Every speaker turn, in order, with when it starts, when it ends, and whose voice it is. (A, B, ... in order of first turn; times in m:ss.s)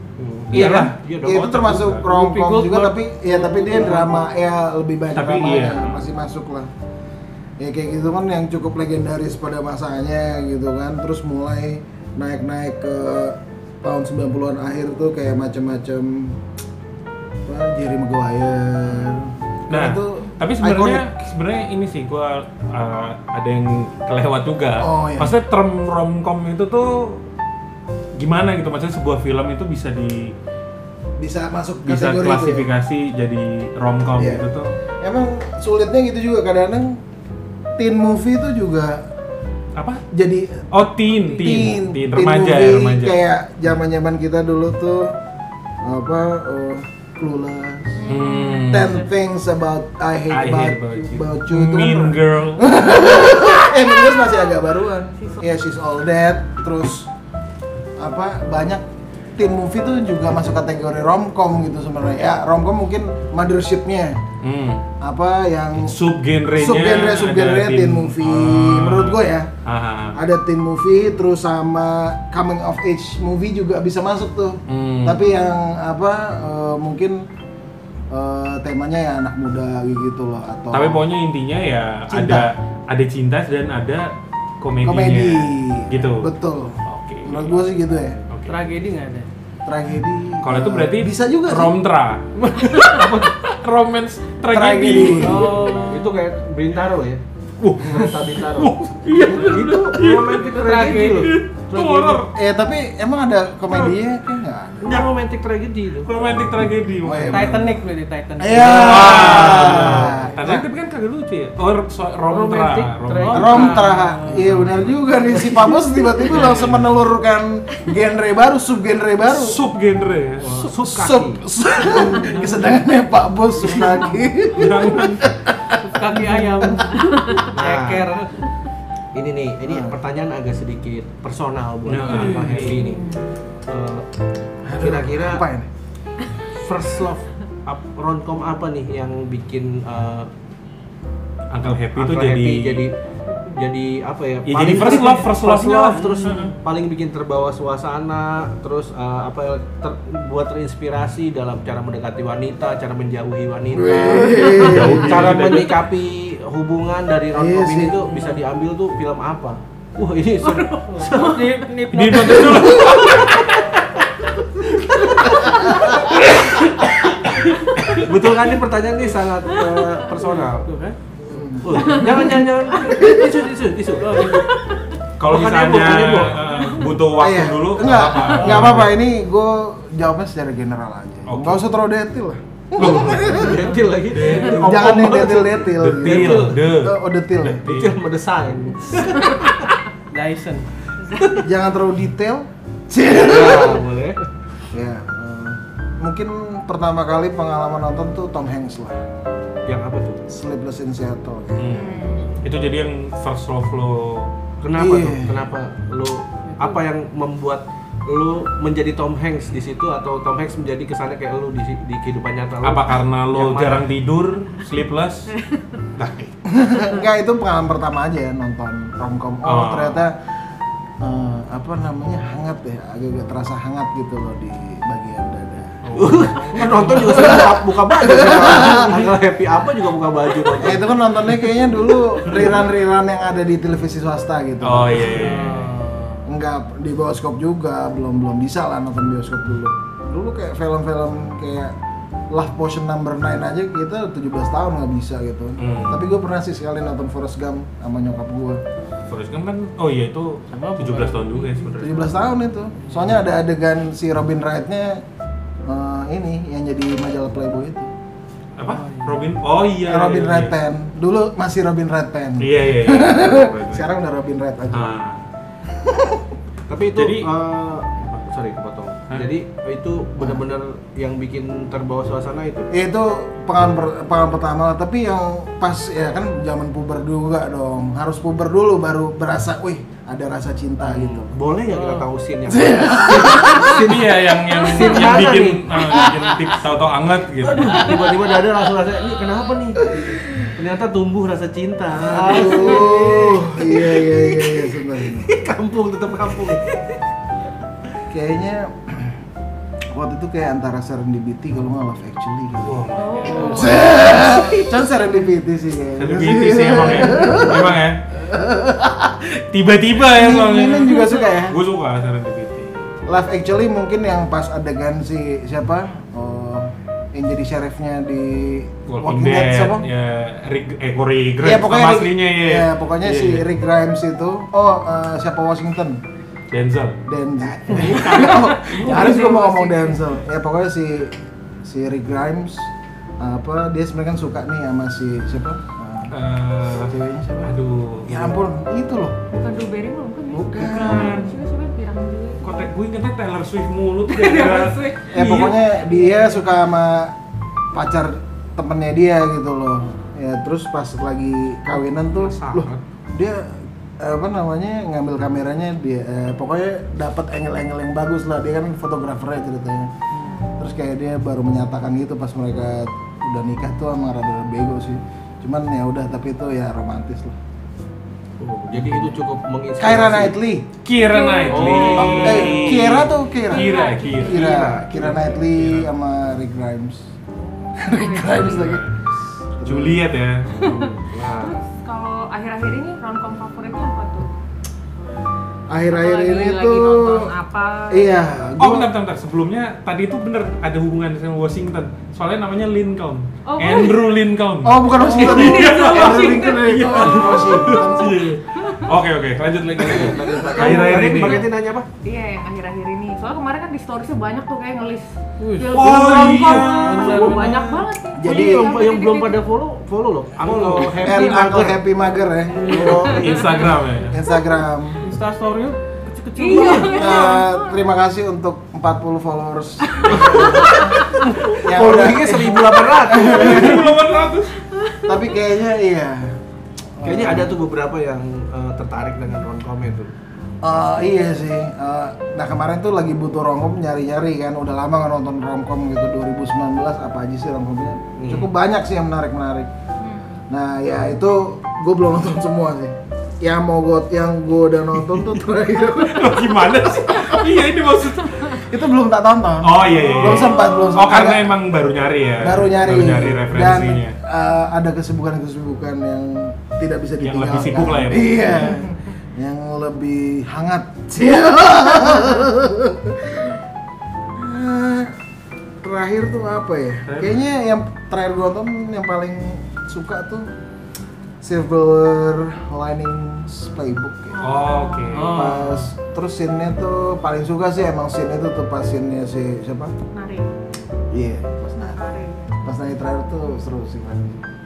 0:00.2-0:01.7 A
0:00.5-0:02.0 B
0:00.5-0:06.7 C
0:02.0-0:04.2 D
0:05.1-0:06.0 B
0:07.6-0:16.4 C
0:17.4-0:21.0 C
0:19.7-0:27.2 B
0:24.8-0:25.3 C
0:28.2-0:30.3 B
0:31.2-0:32.7 C
0:31.8-0:34.7 B
0:34.1-0:34.4 C
0:35.0-0:37.0 C
0:37.8-0:39.0 C
0:39.7-0:40.0 B
0:40.1-0:45.2 C
0:40.7-0:43.2 B
0:45.8-0:48.1 C
0:48.0-0:48.9 E
0:48.1-0:49.0 B
0:48.7-0:57.1 C
0:50.3-0:52.7 B
0:58.0-0:58.8 C
0:59.4-1:04.2 C
1:04.4-1:04.9 B
1:05.0-1:06.0 C
1:05.8-1:10.2 B
1:06.5-1:09.5 C
1:10.1-1:17.2 C
1:14.7-1:15.3 B
1:18.1-1:21.0 C
1:20.7-1:26.3 B
1:22.1-1:22.5 C
1:24.8-1:28.2 C
1:26.8-1:27.6 B
1:28.3-1:28.6 B
1:28.5-1:29.3 D
1:29.6-1:31.8 C
1:30.4-1:35.6 B
1:32.6-1:33.4 A
1:34.5-1:35.5 C
1:35.1-1:36.2 D
1:35.2-1:37.2 A
1:37.6-1:42.3 B
1:37.7-1:42.2 A
1:40.4-1:41.4 D
1:42.3-1:45.1 C
1:44.8-1:46.1 A
1:46.0-1:47.6 B
1:47.0-1:47.8 C
1:47.3-1:50.1 D
1:48.4-1:50.6 C
1:48.6-1:53.8 B
1:52.3-1:53.8 A
1:53.2-1:54.5 D
1:53.3-1:59.6 C
1:54.5-1:54.8 B
1:56.3-1:56.9 B
1:59.3-2:00.7 B
2:00.4-2:01.4 A
2:00.8-2:07.0 C
2:02.2-2:02.7 B
2:04.5-2:05.3 B
2:05.8-2:08.2 D
2:07.5-2:08.3 A
2:09.1-2:13.1 A
2:09.7-2:09.9 C
2:11.8-2:12.8 B
2:12.1-2:12.8 D
2:12.8-2:13.3 E
2:13.7-2:14.0 A
2:14.6-2:15.7 C
2:14.7-2:15.4 A
2:16.5-2:20.3 A
2:21.5-2:22.8 B
2:21.9-2:23.0 A
2:23.5-2:41.6 A
2:24.4-2:26.5 B
2:33.7-2:35.4 C
2:34.4-2:35.8 B
2:37.3-2:38.0 C
2:38.0-2:38.4 D
2:40.4-2:43.0 D
2:41.9-2:43.7 B
2:44.9-2:46.6 A
2:45.4-2:46.0 C
2:47.8-2:50.7 A
2:50.1-2:51.0 D
2:51.3-2:52.2 C
2:51.6-2:54.5 A
2:54.0-2:54.5 D
2:55.2-2:59.0 B
2:55.2-2:56.5 A
2:57.2-3:03.7 C
3:01.2-3:01.6 B
3:02.8-3:06.6 A
3:02.8-3:03.3 B
3:04.1-3:08.0 B
3:04.5-3:07.7 C
3:07.6-3:09.7 A
3:10.1-3:10.7 D
3:11.0-3:11.4 A
3:11.4-3:13.8 C
3:13.1-3:14.2 A
3:14.7-3:19.0 C
3:19.6-3:20.2 A
3:20.3-3:22.3 C
3:21.6-3:24.3 B
3:21.8-3:22.4 E
3:24.6-3:33.9 A
3:24.8-3:25.5 C
3:26.5-3:26.8 D
3:32.6-3:35.3 B
3:36.0-3:36.3 B
3:36.4-3:40.2 C
3:39.4-3:40.0 B
3:41.0-3:45.8 C
3:45.8-3:47.3 B
3:45.9-3:51.0 A
3:46.8-3:49.1 C
3:50.5-3:55.3 C
3:54.6-3:55.7 B
3:55.0-3:56.2 D
3:56.2-4:01.7 C
4:02.3-4:08.6 C
4:05.6-4:06.0 B
4:09.1-4:12.1 B
4:10.5-4:11.9 D
4:11.8-4:15.0 C
4:15.6-4:17.9 C
4:18.6-4:20.5 B
4:18.7-4:19.3 D
4:19.8-4:24.9 C
4:22.4-4:23.9 B
4:24.7-4:25.2 B
4:25.7-4:26.3 C
4:26.7-4:32.7 A
4:27.0-4:27.3 B
4:28.0-4:28.2 B
4:32.7-4:41.3 C
4:40.8-4:45.8 A
4:41.7-4:42.0 D
4:42.5-4:43.7 C
4:43.6-4:48.0 B
4:46.0-4:46.3 C
4:47.4-4:57.0 A
4:49.8-4:50.1 C
4:52.0-4:55.3 C
4:58.1-4:59.2 C
4:59.9-5:09.3 C
5:02.6-5:04.6 B
5:02.9-5:04.0 E
5:04.0-5:04.4 A
5:06.0-5:08.0 B
5:09.3-5:12.9 B
5:10.0-5:11.6 C
5:13.0-5:19.9 C
5:18.9-5:23.5 B
5:21.4-5:26.0 C
5:26.5-5:27.0 B
5:27.0-5:36.1 C
5:27.7-5:28.0 B
5:28.1-5:30.0 E
5:28.8-5:29.2 B
5:36.1-5:38.4 B
5:36.8-5:37.5 C
5:38.1-5:39.2 C
5:39.3-5:42.7 E
5:40.3-5:41.2 C
5:40.5-5:41.4 B
5:42.4-5:45.7 B
5:44.1-5:45.1 E
5:45.1-5:47.1 C
5:45.8-5:46.3 E
5:47.7-5:59.9 C
5:52.1-5:52.8 B
6:00.2-6:00.6 E
6:00.6-6:07.4 C
6:08.4-6:10.4 A
6:09.8-6:10.7 C
6:10.8-6:14.5 B
6:11.0-6:12.9 E
6:11.5-6:12.6 A
6:12.2-6:17.1 C
6:13.4-6:14.6 E
6:14.2-6:15.4 A
6:15.4-6:15.9 B
6:17.8-6:18.8 C
6:17.9-6:18.7 E
6:18.3-6:19.0 B
6:19.6-6:20.1 C
6:19.6-6:20.5 B
6:20.5-6:21.6 A
6:20.6-6:24.3 E
6:25.7-6:27.3 C
6:25.9-6:28.3 E
6:27.9-6:28.9 C
6:28.6-6:41.5 B
6:33.4-6:34.2 E
6:34.6-6:38.3 C
6:35.0-6:37.9 E
6:39.7-6:41.9 A
6:40.2-6:40.7 C
6:42.0-6:49.4 E
6:45.4-6:47.8 D
6:45.7-6:47.6 B
6:48.1-6:48.8 C
6:48.2-6:51.8 A
6:50.5-6:50.8 D
6:51.0-6:53.1 C
6:52.5-6:53.1 D
6:52.6-6:53.4 A
6:52.9-6:53.6 E
6:53.0-6:54.2 B
6:54.1-6:55.0 C
6:55.0-6:57.3 D
6:56.4-6:57.8 E
6:56.5-6:57.0 A
6:56.8-7:03.9 C
7:00.0-7:00.8 A
7:00.0-7:01.0 E
7:01.3-7:01.5 D
7:01.5-7:03.8 A
7:03.1-7:04.5 B
7:04.7-7:05.1 E
7:05.0-7:06.4 C
7:07.0-7:07.6 C
7:07.0-7:10.1 A
7:10.6-7:19.7 C
7:18.2-7:18.5 A
7:20.0-7:20.4 E
7:20.5-7:26.7 C
7:26.0-7:28.6 B
7:28.6-7:31.6 C
7:29.6-7:34.2 B
7:30.0-7:31.0 E
7:32.4-7:43.6 C
7:37.2-7:38.8 B
7:44.3-7:45.1 C
7:45.8-7:50.5 C
7:47.0-7:47.4 B
7:51.4-7:54.4 C
7:54.4-7:55.4 E
7:54.4-7:55.6 B
7:55.1-7:55.9 D
7:55.3-7:59.9 C
8:00.1-8:00.5 E
8:01.1-8:02.0 C
8:01.9-8:02.6 E
8:02.6-8:04.4 C